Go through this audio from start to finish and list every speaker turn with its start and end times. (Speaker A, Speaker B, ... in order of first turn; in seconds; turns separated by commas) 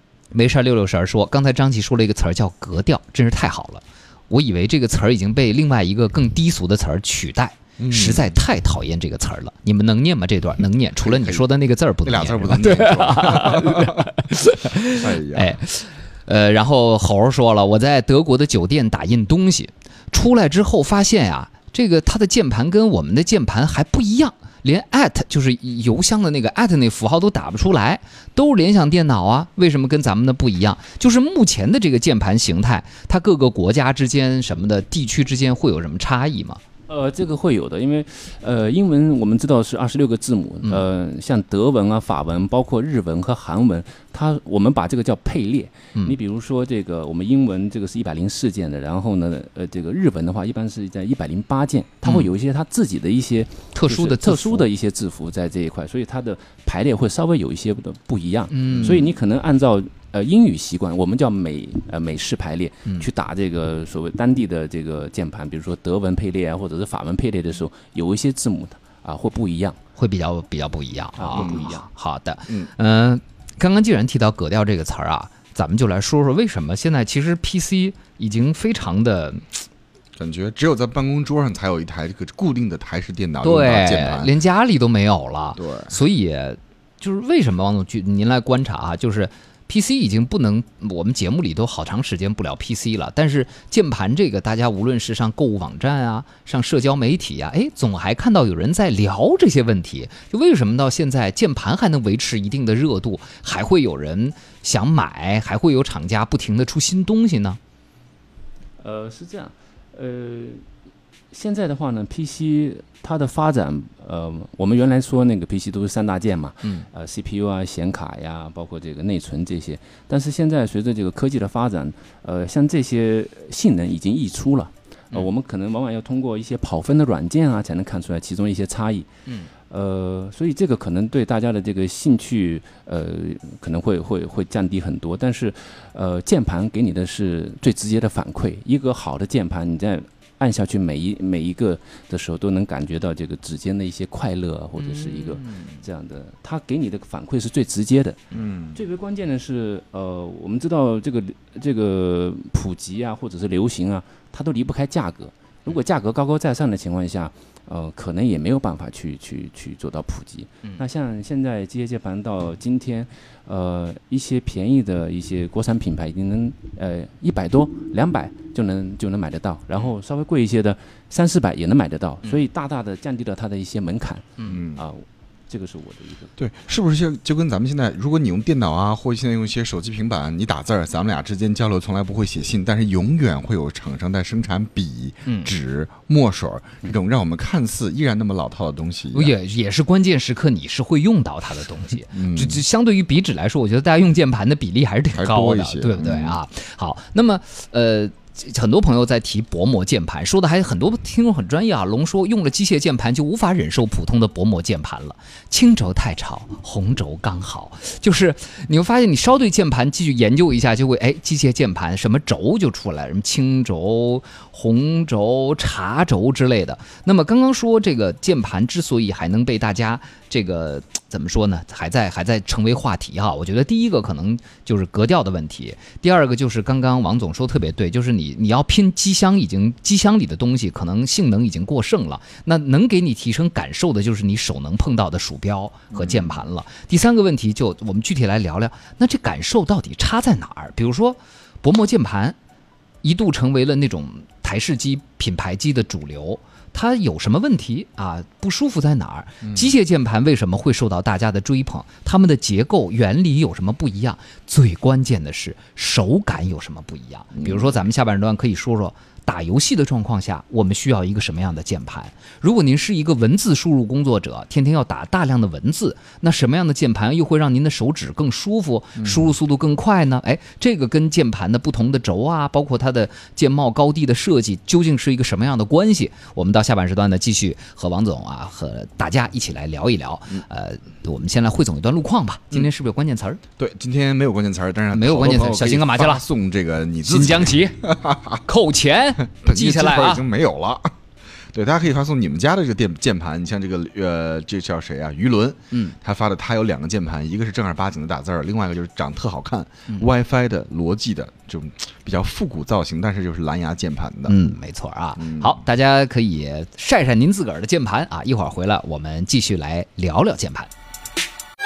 Speaker A: 0.3-36.6, Speaker B: 7.8-8.3, Speaker B: 11.0-11.4, Speaker B: 12.1-14.2, Speaker B: 14.9-15.6, Speaker C: 36.9-69.8, Speaker A: 52.0-52.3, Speaker A: 53.7-54.7, Speaker A: 58.5-59.1, Speaker B: 58.7-59.0, Speaker A: 70.0-79.6, Speaker C: 71.2-71.9, Speaker B: 71.3-71.7, Speaker B: 80.2-84.3, Speaker A: 83.4-107.6, Speaker B: 85.6-86.0, Speaker C: 108.8-110.7, Speaker C: 111.3-129.1, Speaker C: 129.7-148.2, Speaker A: 144.8-145.8, Speaker B: 148.3-148.8, Speaker C: 148.7-176.3, Speaker B: 174.4-174.8, Speaker B: 176.4-189.4, Speaker A: 185.3-185.5, Speaker A: 189.1-242.4, Speaker B: 192.1-192.6, Speaker B: 195.1-196.4, Speaker B: 235.9-236.4, Speaker A: 243.0-283.4, Speaker B: 249.4-249.7, Speaker B: 257.4-257.7, Speaker B: 283.6-288.4, Speaker A: 284.9-286.2, Speaker A: 287.1-287.8, Speaker A: 288.4-290.2, Speaker B: 289.3-290.9, Speaker B: 291.5-304.4, Speaker A: 304.3-310.7, Speaker B: 305.2-305.6